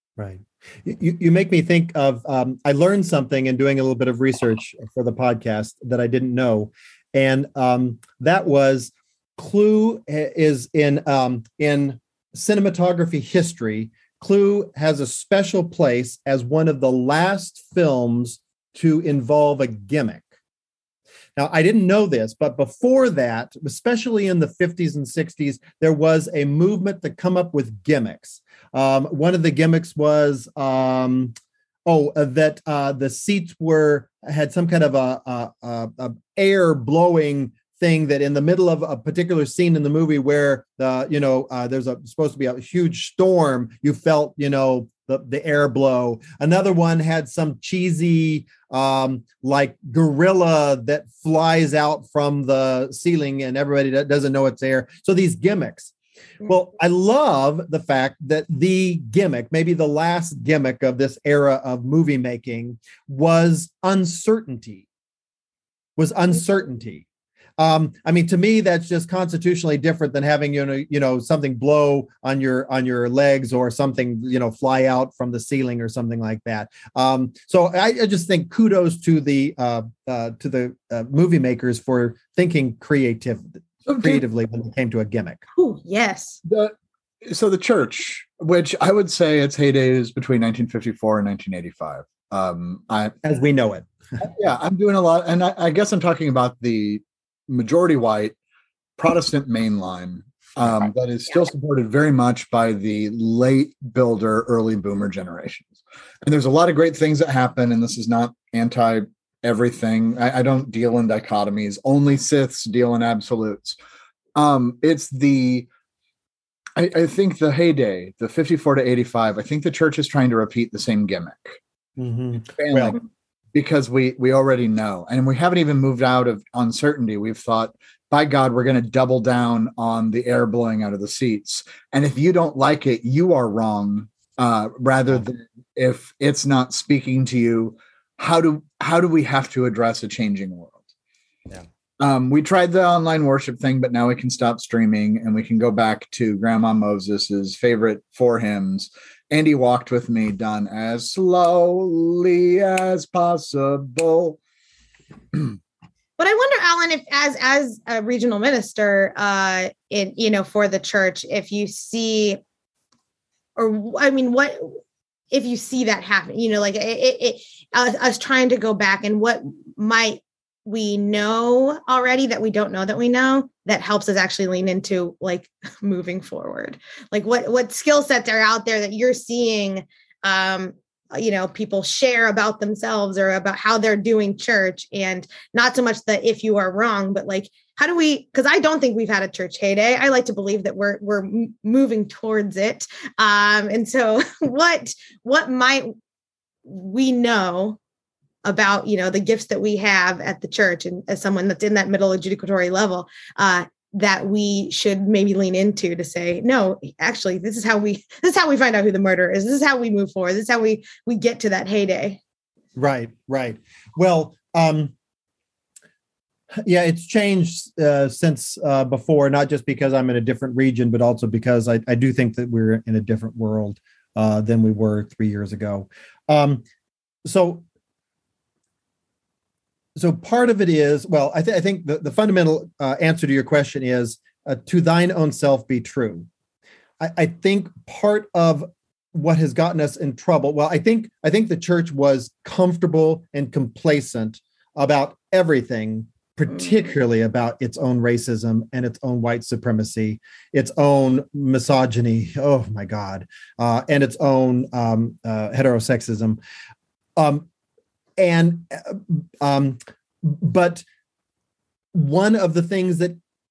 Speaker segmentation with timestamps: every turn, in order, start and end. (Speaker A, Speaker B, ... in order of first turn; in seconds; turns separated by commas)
Speaker A: 0.2-20.2, Speaker A: 21.4-31.4, Speaker A: 31.9-55.9, Speaker A: 56.4-64.9, Speaker A: 66.0-67.1, Speaker A: 67.6-85.4, Speaker B: 83.9-84.2, Speaker C: 85.6-86.4, Speaker B: 86.5-93.2, Speaker A: 93.2-93.9, Speaker B: 94.2-98.3, Speaker B: 99.0-113.8, Speaker B: 114.4-115.7, Speaker B: 116.8-121.6, Speaker A: 122.0-123.0, Speaker B: 122.5-123.0, Speaker B: 123.5-140.8, Speaker B: 142.0-154.4, Speaker C: 156.2-162.4, Speaker C: 163.6-164.8, Speaker C: 165.3-195.9, Speaker C: 196.7-197.8, Speaker C: 198.5-212.2, Speaker A: 212.8-214.9, Speaker A: 216.6-226.7, Speaker A: 227.3-227.7, Speaker A: 230.0-236.3, Speaker A: 237.0-256.4, Speaker A: 257.2-257.5, Speaker A: 258.2-260.9, Speaker A: 261.9-263.2